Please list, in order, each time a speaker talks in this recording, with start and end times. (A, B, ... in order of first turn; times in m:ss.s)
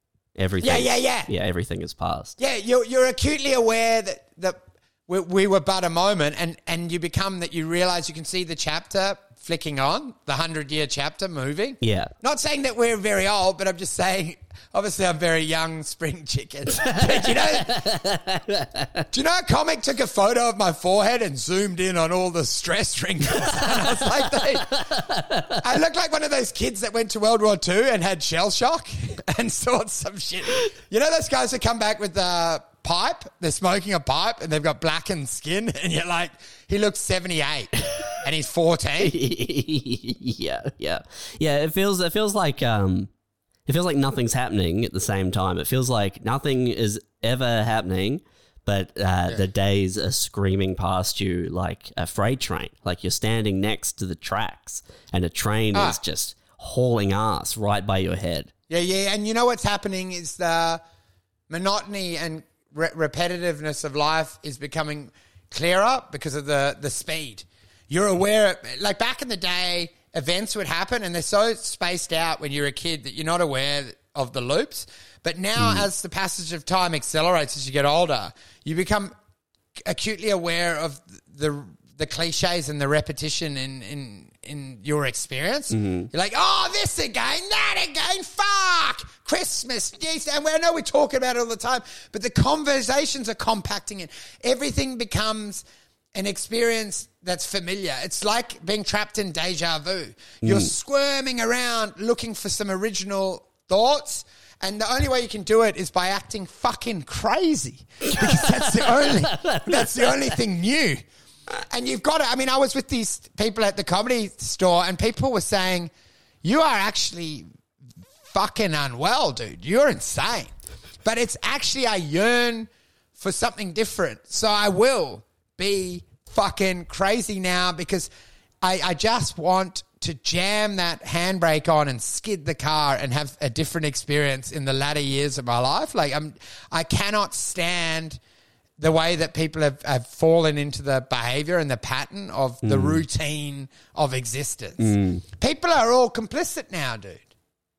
0:00.4-0:02.3 A
0:00.6-0:01.3 B
0:02.4-0:17.8 B
0:11.8-0:12.1 A
0:16.8-0:19.0 A
0:19.1-0:24.8 B
0:24.7-0:25.6 A
0:25.6-0:39.1 B
0:39.0-0:43.1 A
0:43.6-0:58.5 A
0:58.7-1:00.8 B
1:01.5-1:19.1 B
1:15.6-1:15.8 A
1:19.8-1:35.6 B
1:25.7-1:26.1 A
1:36.1-1:51.0 B
1:40.4-1:40.7 A
1:48.2-1:50.2 A
1:51.7-1:55.9 B
1:56.4-1:57.4 B
1:58.3-2:00.5 B
2:01.0-2:08.1 B
2:08.6-2:18.2 B
2:18.8-2:27.2 B
2:22.6-2:23.0 A
2:24.8-2:25.2 A